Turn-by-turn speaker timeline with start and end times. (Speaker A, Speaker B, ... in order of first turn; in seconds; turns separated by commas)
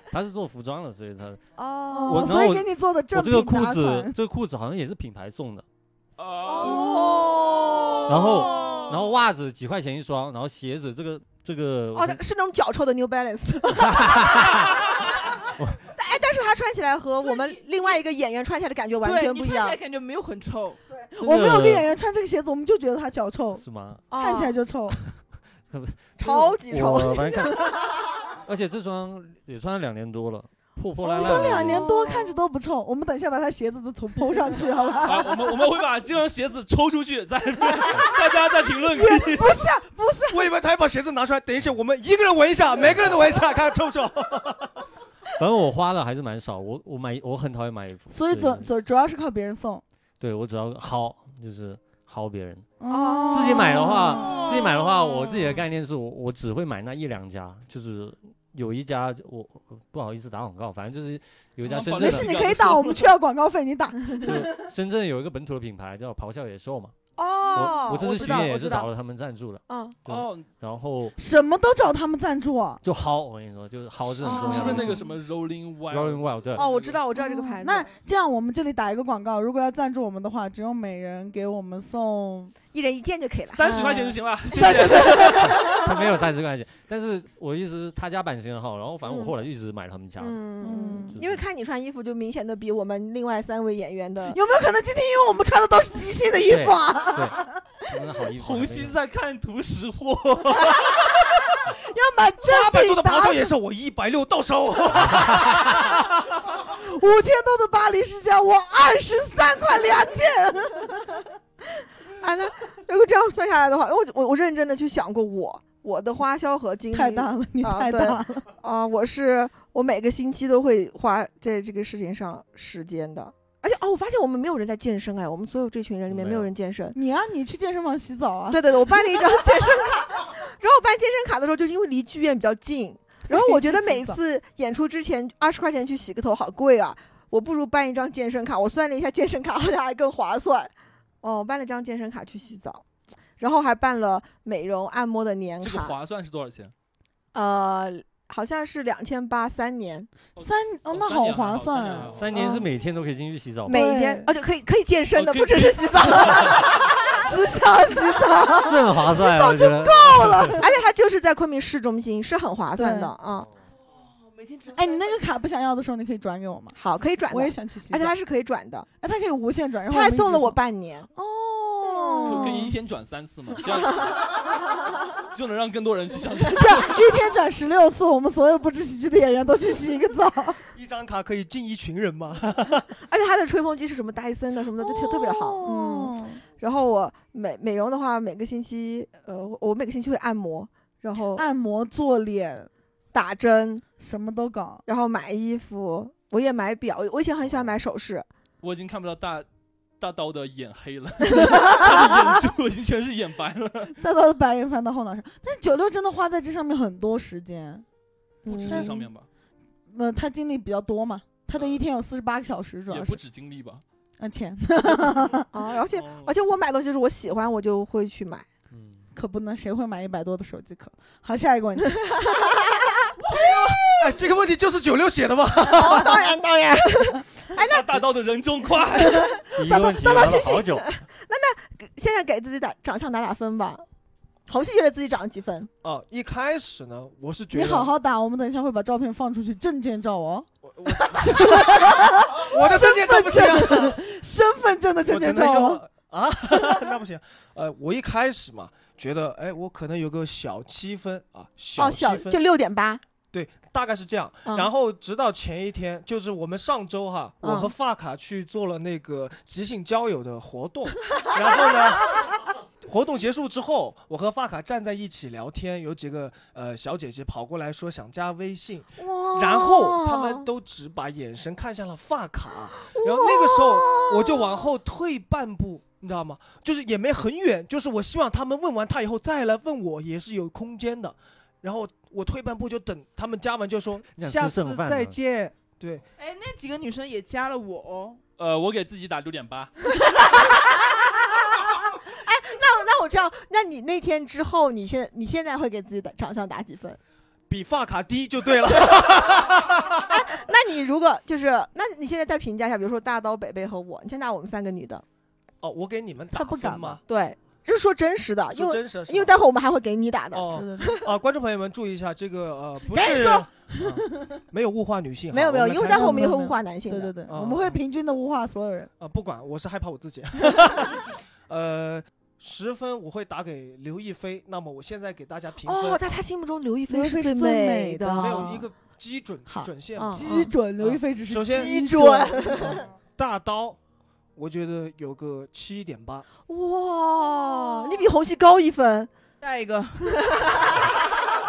Speaker A: 0.1-1.4, Speaker B: 1.6-2.4, Speaker C: 1.9-4.2, Speaker A: 2.1-5.6, Speaker D: 6.2-7.0, Speaker B: 6.5-7.4, Speaker A: 8.1-12.2, Speaker B: 11.9-15.4, Speaker A: 13.8-14.7, Speaker B: 15.9-19.8, Speaker E: 19.0-20.8, Speaker C: 20.9-25.0, Speaker A: 21.2-21.9, Speaker A: 23.6-24.0, Speaker B: 24.1-24.6, Speaker A: 25.7-27.7, Speaker B: 26.2-27.7, Speaker A: 28.4-32.0, Speaker C: 31.0-35.3, Speaker B: 31.2-31.6, Speaker D: 35.0-39.6, Speaker C: 38.9-40.4, Speaker F: 40.3-44.7, Speaker A: 45.4-48.7, Speaker C: 48.1-49.8, Speaker A: 50.2-52.6, Speaker C: 52.8-54.3, Speaker B: 52.9-54.3, Speaker A: 53.3-62.3, Speaker D: 61.6-63.1, Speaker C: 62.0-64.7, Speaker A: 64.2-66.9, Speaker B: 67.2-68.9, Speaker A: 67.5-71.1, Speaker C: 67.6-68.5, Speaker B: 69.7-70.0, Speaker D: 70.1-70.5, Speaker C: 71.2-72.8, Speaker A: 72.8-75.0, Speaker D: 74.1-77.0, Speaker B: 74.2-75.0, Speaker C: 74.3-75.0, Speaker A: 75.9-76.7, Speaker B: 76.5-77.9, Speaker C: 77.2-82.5, Speaker B: 82.7-85.8, Speaker D: 83.5-85.6, Speaker C: 83.7-85.6, Speaker A: 85.5-90.4, Speaker B: 89.0-89.3, Speaker B: 90.2-94.4, Speaker C: 90.6-91.2, Speaker A: 91.1-91.4, Speaker C: 94.3-97.5, Speaker A: 96.5-99.0, Speaker D: 98.4-101.0, Speaker C: 101.8-103.5, Speaker F: 102.4-105.9, Speaker A: 105.1-105.6, Speaker C: 106.7-111.2, Speaker B: 112.2-127.0, Speaker C: 116.9-118.5, Speaker A: 126.1-126.5, Speaker C: 126.9-129.3, Speaker B: 128.5-142.8, Speaker C: 133.3-134.2, Speaker B: 143.4-145.9, Speaker D: 145.6-146.7, Speaker B: 147.3-150.1, Speaker C: 150.4-152.1, Speaker D: 150.4-152.5, Speaker A: 152.1-153.8, Speaker B: 152.3-152.7, Speaker B: 153.7-157.3, Speaker C: 153.7-154.3, Speaker D: 155.1-156.8, Speaker C: 157.2-160.7, Speaker A: 158.6-160.6, Speaker B: 159.2-163.5, Speaker C: 162.8-163.1, Speaker E: 163.9-165.1, Speaker C: 164.7-166.8, Speaker B: 166.8-168.9, Speaker C: 167.3-168.1, Speaker C: 169.0-170.6, Speaker B: 169.9-171.1, Speaker C: 171.2-172.7, Speaker B: 171.8-172.6, Speaker D: 172.2-174.3, Speaker D: 175.3-176.9, Speaker C: 176.5-180.6, Speaker F: 180.7-182.9, Speaker B: 183.0-191.4, Speaker C: 184.8-186.4, Speaker C: 191.3-192.7, Speaker B: 193.1-193.8, Speaker C: 194.0-194.8, Speaker B: 194.8-198.3, Speaker A: 197.4-197.8, Speaker D: 198.6-199.4, Speaker D: 200.0-203.9, Speaker C: 204.0-207.8, Speaker B: 208.4-208.9, Speaker D: 208.4-209.3, Speaker C: 208.6-209.1, Speaker C: 209.9-213.2, Speaker D: 212.9-213.8, Speaker C: 214.2-215.5, Speaker B: 215.5-218.4, Speaker D: 215.9-216.3, Speaker A: 218.7-219.1, Speaker C: 219.1-222.0, Speaker B: 222.1-223.0, Speaker E: 223.3-224.1, Speaker F: 224.0-226.2, Speaker B: 225.6-228.0, Speaker D: 227.5-229.4, Speaker B: 229.0-233.8, Speaker A: 229.5-230.9, Speaker B: 234.5-235.7, Speaker F: 235.8-237.9, Speaker C: 237.5-245.8, Speaker F: 240.6-244.0, Speaker F: 245.1-252.4, Speaker B: 251.8-253.0, Speaker F: 253.3-262.2, Speaker B: 257.4-257.7, Speaker F: 262.8-286.0, Speaker B: 269.0-270.4, Speaker B: 272.8-274.7, Speaker A: 284.2-285.1, Speaker E: 286.2-288.2, Speaker D: 288.4-289.7, Speaker B: 290.1-291.2, Speaker B: 292.1-297.0, Speaker F: 297.5-300.1, Speaker B: 300.1-305.0, Speaker F: 305.6-307.0, Speaker C: 306.3-307.0, Speaker B: 307.1-311.1, Speaker F: 308.5-309.4, Speaker F: 310.3-316.4, Speaker C: 310.5-311.0, Speaker C: 312.9-313.9, Speaker B: 315.3-317.2, Speaker C: 315.9-318.9, Speaker F: 317.3-317.8, Speaker F: 319.0-326.2, Speaker B: 325.6-328.6, Speaker C: 326.9-328.6, Speaker F: 328.2-331.8, Speaker C: 329.5-332.8, Speaker B: 329.9-330.5, Speaker B: 331.5-332.8, Speaker F: 332.6-333.8, Speaker F: 334.4-336.2, Speaker B: 336.4-339.1, Speaker E: 339.4-340.7